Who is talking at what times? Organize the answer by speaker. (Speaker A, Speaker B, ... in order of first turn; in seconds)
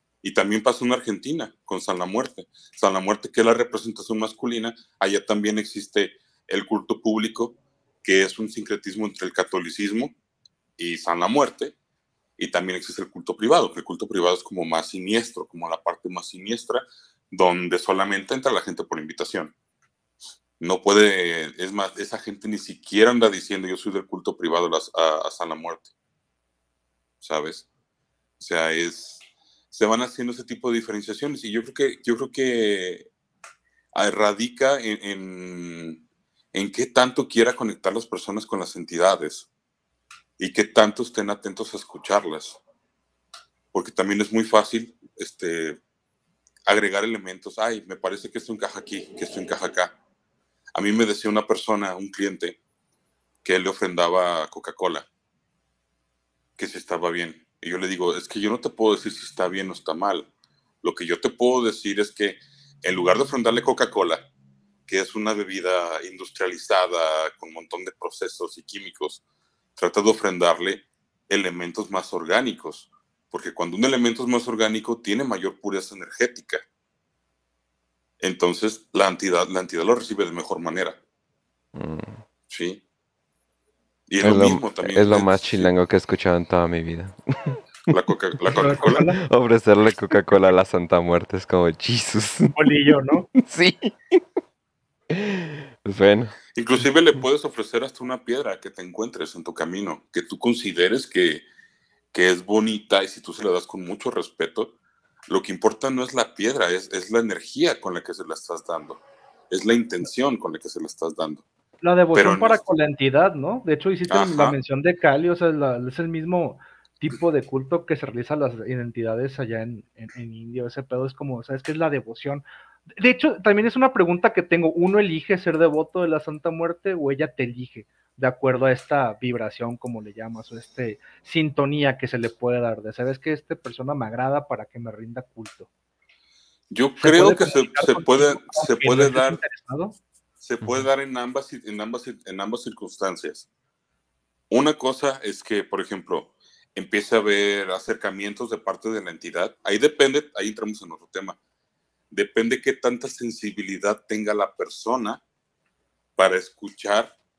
Speaker A: 0.2-10.2, 10.8-11.8, 12.4-19.6, 20.6-25.9, 27.2-27.7, 28.4-33.1, 33.9-36.0, 36.5-39.5, 40.4-42.6, 43.7-45.8, 46.7-50.0, 50.8-52.6, 53.4-55.1, 56.6-60.3, 60.8-64.3, 64.9-69.2, 69.8-76.7, 78.2-81.0, 82.5-82.8, 84.1-85.7, 87.9-89.0, 96.6-101.5, 102.1-104.7, 105.3-111.5, 112.1-112.6, 114.1-114.6, 136.7-139.4, 140.4-143.5, 144.5-151.4, 152.1-155.2, 156.2-157.1
Speaker B: 81.8-82.2, 84.2-87.6, 89.2-92.6, 93.4-94.2, 95.1-96.3
Speaker C: 88.5-89.2, 92.5-93.3, 111.8-122.5, 123.0-135.7, 137.0-140.0